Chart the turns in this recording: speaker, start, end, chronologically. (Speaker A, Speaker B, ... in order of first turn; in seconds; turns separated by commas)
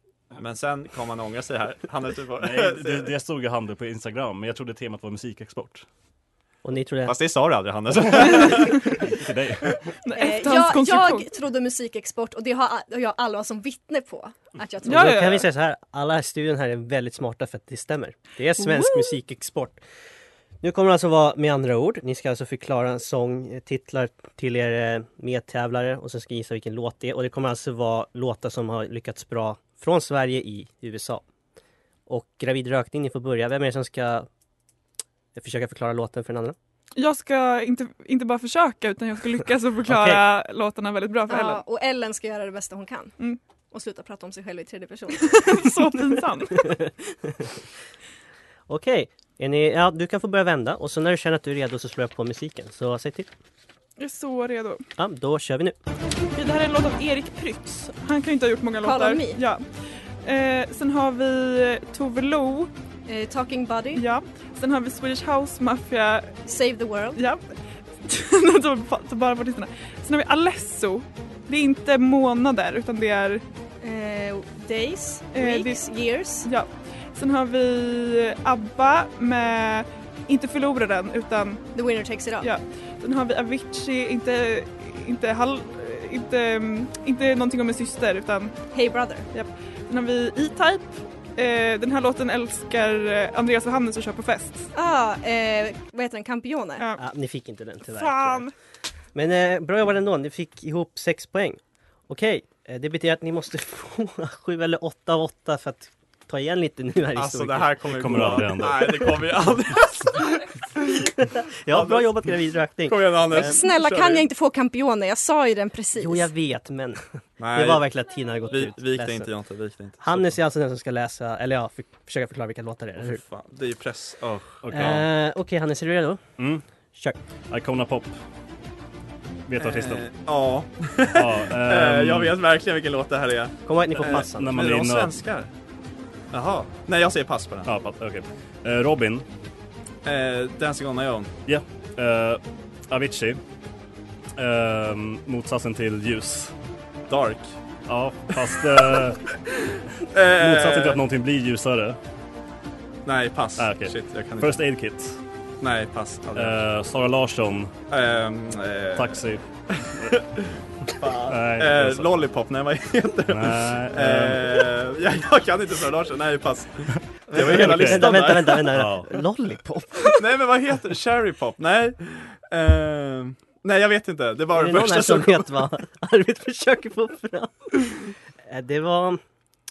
Speaker A: 0.4-3.1, Speaker B: 2.4-5.9, Speaker C: 6.6-7.2, Speaker A: 7.0-9.0, Speaker B: 9.0-9.8, Speaker D: 10.1-11.2, Speaker E: 10.1-15.4, Speaker D: 14.9-15.4, Speaker C: 14.9-19.8, Speaker C: 20.6-31.2, Speaker C: 32.1-34.3, Speaker C: 35.4-36.6, Speaker D: 37.0-41.6, Speaker C: 39.9-40.2, Speaker E: 41.3-43.1, Speaker E: 43.7-45.7, Speaker D: 45.2-46.7, Speaker C: 46.9-47.5, Speaker C: 48.7-53.3, Speaker D: 54.0-54.8, Speaker C: 55.0-55.8, Speaker D: 56.4-59.6, Speaker E: 58.8-59.4, Speaker D: 60.2-62.7, Speaker E: 63.1-64.0, Speaker D: 63.9-66.4, Speaker E: 66.5-67.2, Speaker D: 67.2-73.4, Speaker E: 73.8-76.5, Speaker D: 75.3-75.8, Speaker D: 76.4-81.7, Speaker E: 81.8-82.5, Speaker D: 82.4-88.6, Speaker E: 88.7-89.3, Speaker D: 89.3-94.7, Speaker E: 94.7-96.8, Speaker C: 97.0-98.5, Speaker D: 97.9-98.5, Speaker C: 99.2-107.8, Speaker A: 107.1-111.0, Speaker B: 107.9-109.2, Speaker C: 111.2-113.5, Speaker A: 111.7-112.2, Speaker A: 112.8-114.3, Speaker E: 113.3-116.3, Speaker C: 116.0-117.0, Speaker A: 117.4-117.9, Speaker C: 117.5-119.3, Speaker A: 118.5-120.4, Speaker C: 120.0-123.2, Speaker A: 123.0-125.0, Speaker B: 124.6-125.0, Speaker C: 124.7-126.2, Speaker B: 126.4-126.6, Speaker B: 127.5-128.2, Speaker B: 129.5-130.1, Speaker A: 129.6-135.5, Speaker B: 131.1-132.4, Speaker C: 133.7-134.5, Speaker B: 134.0-135.2, Speaker A: 136.3-137.7, Speaker B: 137.7-139.2, Speaker A: 140.1-141.3, Speaker B: 141.5-143.4, Speaker B: 144.4-146.5, Speaker A: 147.1-147.5, Speaker B: 147.9-149.2, Speaker A: 148.3-149.0, Speaker A: 150.1-151.0, Speaker B: 150.3-152.0, Speaker A: 153.1-154.7, Speaker B: 153.6-155.2, Speaker A: 155.6-156.6, Speaker B: 156.3-157.7, Speaker A: 157.9-168.8, Speaker B: 159.0-159.4, Speaker B: 161.3-162.2, Speaker B: 163.3-164.7, Speaker C: 167.3-170.2, Speaker B: 167.4-169.2, Speaker A: 170.0-175.5, Speaker C: 174.5-179.2